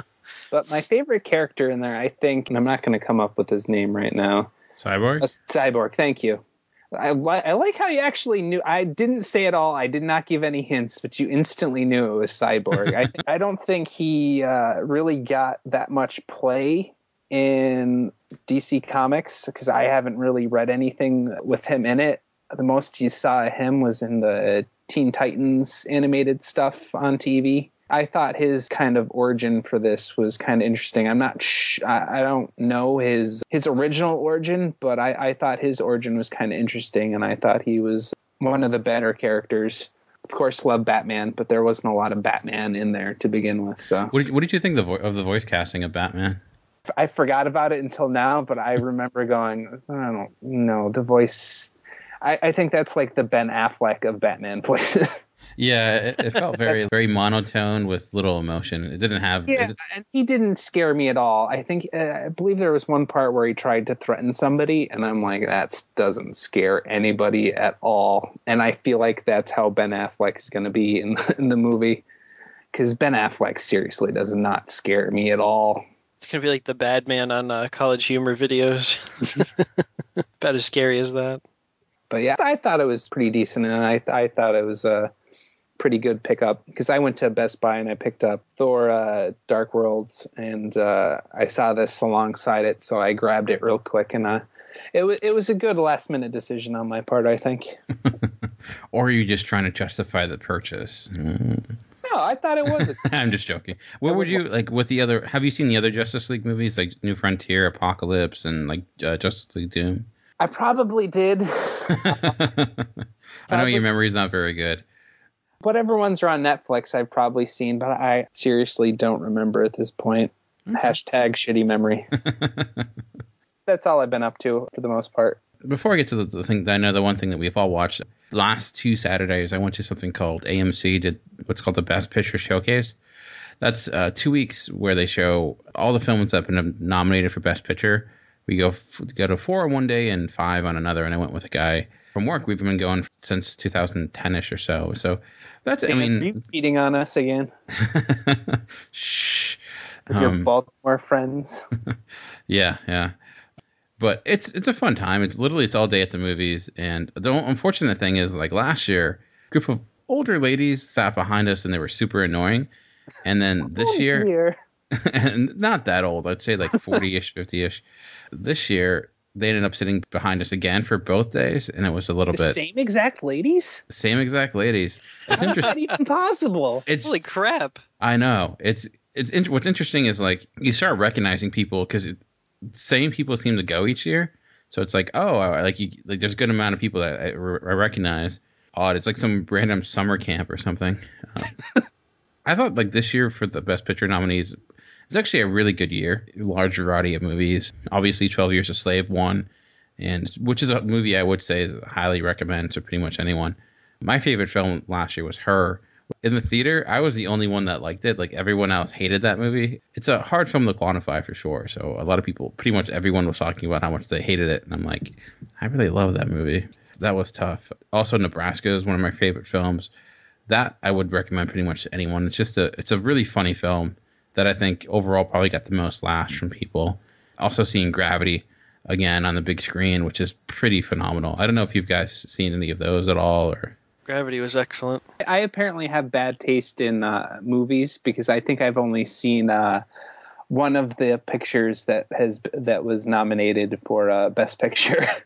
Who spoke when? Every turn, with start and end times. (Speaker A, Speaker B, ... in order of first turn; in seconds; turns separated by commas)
Speaker A: 0.5-4.5, Speaker B: 4.8-5.3, Speaker A: 5.2-44.1, Speaker B: 44.1-46.4, Speaker A: 46.9-55.2, Speaker B: 55.6-59.8, Speaker A: 56.6-56.9, Speaker A: 59.5-72.0, Speaker A: 72.7-75.8, Speaker C: 76.2-79.8, Speaker C: 80.4-81.4, Speaker A: 82.1-85.1, Speaker A: 85.8-97.8, Speaker B: 98.9-101.8, Speaker A: 102.0-103.0, Speaker B: 103.0-110.1, Speaker A: 104.1-104.4, Speaker A: 110.4-112.4, Speaker B: 112.0-112.9, Speaker B: 113.5-114.8, Speaker A: 113.5-114.0, Speaker A: 115.6-122.1, Speaker B: 120.7-120.9, Speaker B: 122.3-122.9, Speaker A: 123.7-125.4, Speaker B: 125.6-133.0, Speaker B: 133.6-146.3, Speaker A: 145.9-147.5, Speaker B: 147.8-150.5, Speaker A: 150.1-151.7, Speaker B: 152.5-153.1, Speaker B: 154.0-162.7, Speaker B: 163.2-164.3, Speaker A: 163.8-164.6, Speaker B: 164.9-167.8, Speaker B: 168.3-172.6, Speaker A: 172.3-173.8, Speaker B: 173.9-175.8, Speaker A: 175.3-176.8, Speaker B: 176.9-177.2, Speaker C: 177.0-177.8, Speaker B: 178.0-191.6, Speaker B: 192.5-194.6, Speaker B: 195.1-199.5, Speaker B: 200.0-219.9, Speaker B: 220.5-233.8, Speaker C: 234.1-235.0, Speaker A: 235.2-239.8, Speaker A: 240.5-245.2